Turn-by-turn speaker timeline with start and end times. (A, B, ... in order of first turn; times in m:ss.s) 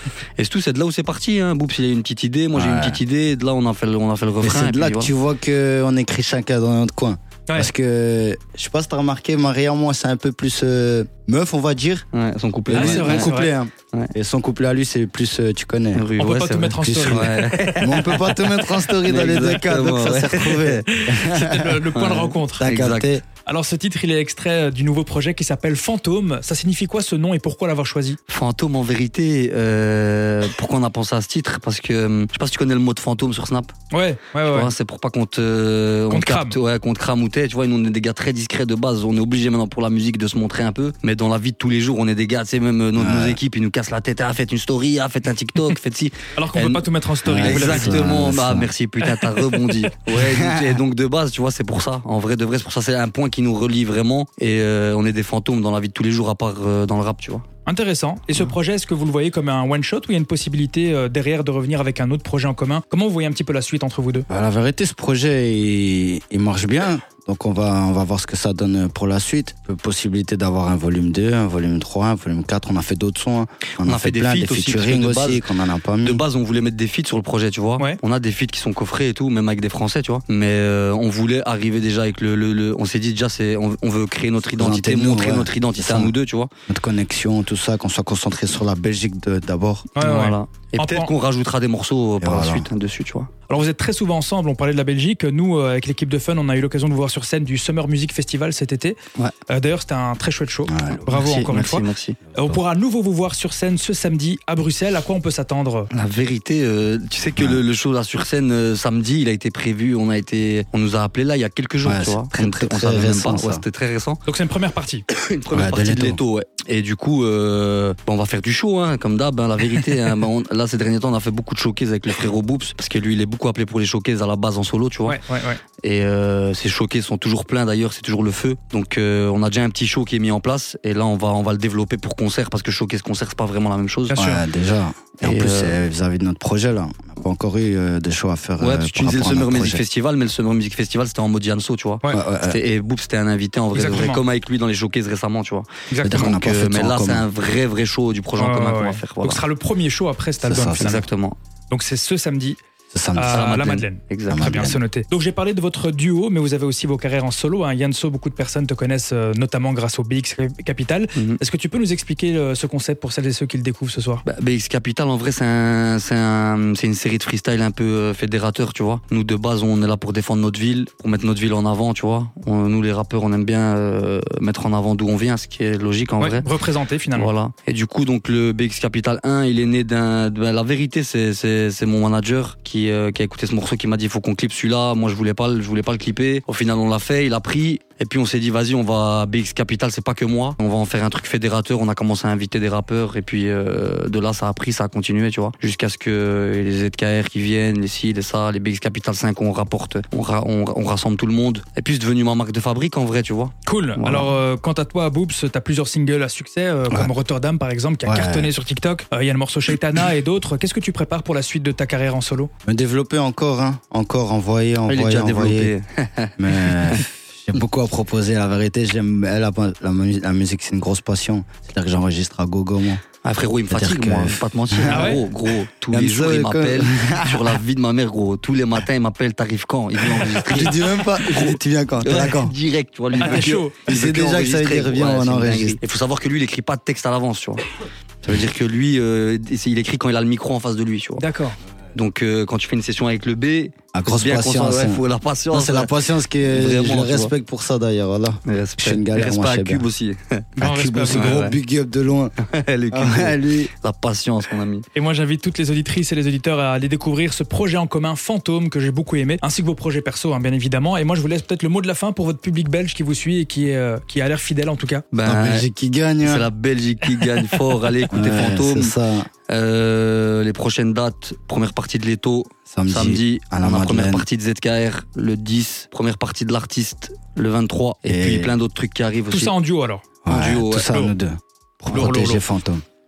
0:00.4-0:05.1 A
0:02.5-0:03.0 B
0:04.4-0:12.1 B
0:12.1-0:13.3 A
0:12.7-0:16.1 B
0:12.7-0:13.5 C
0:16.0-0:20.8 A
0:16.2-0:17.9 C
0:16.8-0:21.9 B
0:20.7-0:22.7 C
0:21.9-0:23.2 A
0:22.6-0:23.2 B
0:23.4-0:28.2 C
0:28.3-0:33.7 A
0:33.9-0:34.7 C
0:34.4-0:57.4 A
0:36.1-0:36.6 C
0:43.0-0:43.4 B
0:46.4-0:48.2 C
0:47.2-0:48.7 B
0:50.2-0:50.7 B
0:57.7-1:04.3 C
1:04.3-1:16.2 B
1:13.8-1:15.4 A
1:16.0-1:26.5 A
1:24.6-1:26.1 B
1:26.7-1:29.9 B
1:30.0-1:31.1 C
1:30.0-1:33.3 A
1:32.2-1:32.7 B
1:33.5-1:39.0 C
1:39.5-1:45.9 C
1:40.7-1:41.1 B
1:41.1-1:42.2 A
1:45.9-1:54.2 A
1:51.8-1:53.6 B
1:54.3-1:55.0 C
1:55.1-2:05.2 A
1:55.5-1:56.2 B
2:05.1-2:05.6 C
2:05.8-2:14.2 A
2:14.1-2:14.4 C
2:14.2-2:19.8 B
2:15.2-2:15.8 A
2:18.6-2:29.4 A
2:22.1-2:22.6 B
2:23.7-2:24.2 C
2:25.9-2:26.3 C
2:26.0-2:27.2 B
2:28.4-2:31.0 C
2:30.4-2:31.0 B
2:30.8-2:31.4 A
2:31.7-2:32.6 C
2:32.9-2:33.6 B
2:33.2-2:44.2 C
2:33.3-2:34.5 A
2:34.3-2:34.8 B
2:44.2-2:56.5 A
2:56.2-2:57.3 C
2:57.1-3:24.3 A
3:23.6-3:32.5 C
3:28.0-3:28.5 B
3:32.6-3:35.7 B
3:34.9-3:37.0 A
3:36.4-3:43.0 B
3:43.2-4:01.2 A
3:43.7-3:45.2 B
3:44.9-3:45.2 C
3:45.9-3:47.6 B
3:50.1-3:52.5 B
3:53.2-3:55.8 B
3:53.2-3:53.8 C
4:01.2-4:01.6 C
4:01.9-4:07.3 A
4:03.9-4:09.8 B
4:08.5-4:11.6 A
4:10.6-4:11.4 C
4:10.6-4:12.4 B
4:12.5-4:14.8 A
4:12.9-4:13.7 B
4:14.9-4:25.0 C
4:25.1-4:25.7 A
4:25.2-4:26.5 B
4:26.2-4:28.9 A
4:28.1-4:29.3 B
4:29.5-4:39.5 A
4:32.7-4:34.2 B
4:38.1-4:38.5 B
4:39.3-4:40.0 C
4:40.2-4:42.8 B
4:40.3-4:41.0 A
4:40.9-4:41.1 C
4:41.9-4:42.4 C